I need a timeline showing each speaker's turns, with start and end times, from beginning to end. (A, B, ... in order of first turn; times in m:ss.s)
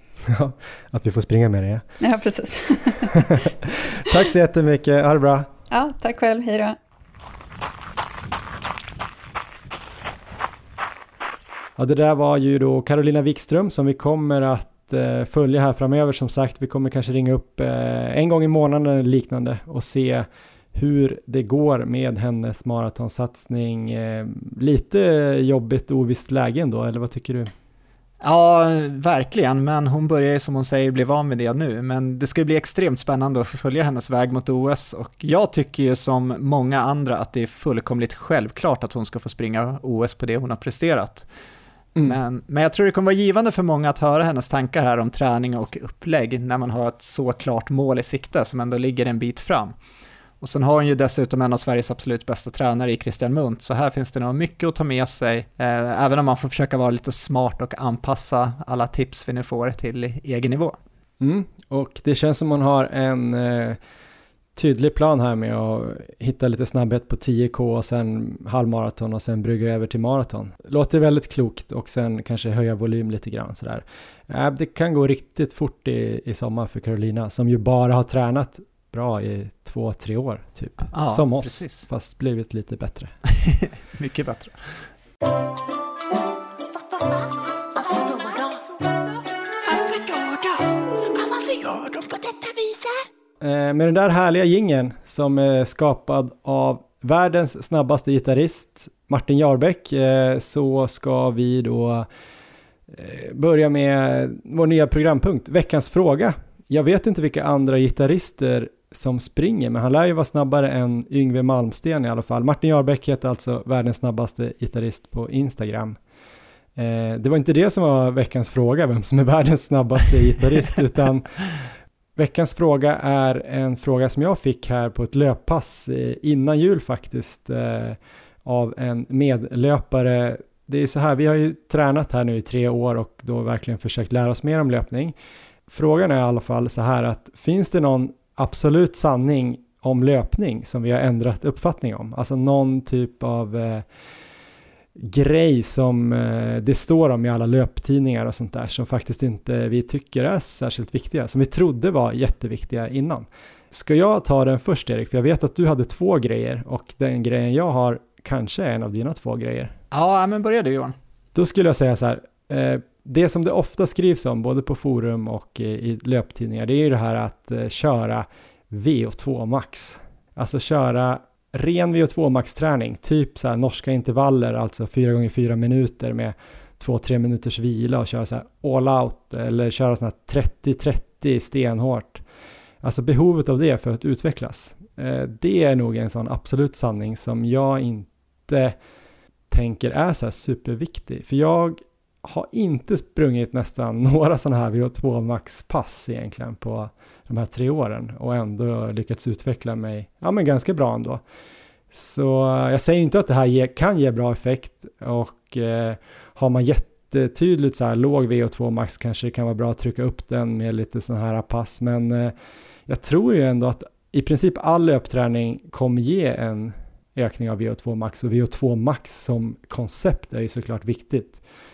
0:00.3-0:01.8 A
0:02.0-0:03.1 B
0:03.3-0:05.5 A
0:05.7-0:06.8 B
0:11.8-0:27.5 A
0:28.2-0:41.3 C
0:42.0-0:49.7 C
0:50.4-1:00.8 C
1:01.2-1:03.8 A
1:04.6-1:23.1 A
1:20.9-1:21.9 C
1:23.4-1:24.9 C
1:26.8-1:28.9 C
1:29.6-1:33.0 C
1:33.4-1:42.1 A
1:42.9-1:56.0 A
1:56.8-2:01.4 A
2:02.2-2:15.1 A
2:15.7-2:23.8 A
2:25.0-2:39.7 A
2:39.9-2:41.0 C
2:41.3-3:02.2 A
3:02.8-3:08.8 A
3:09.5-3:21.2 A
3:21.9-3:32.3 A
3:32.9-3:41.4 A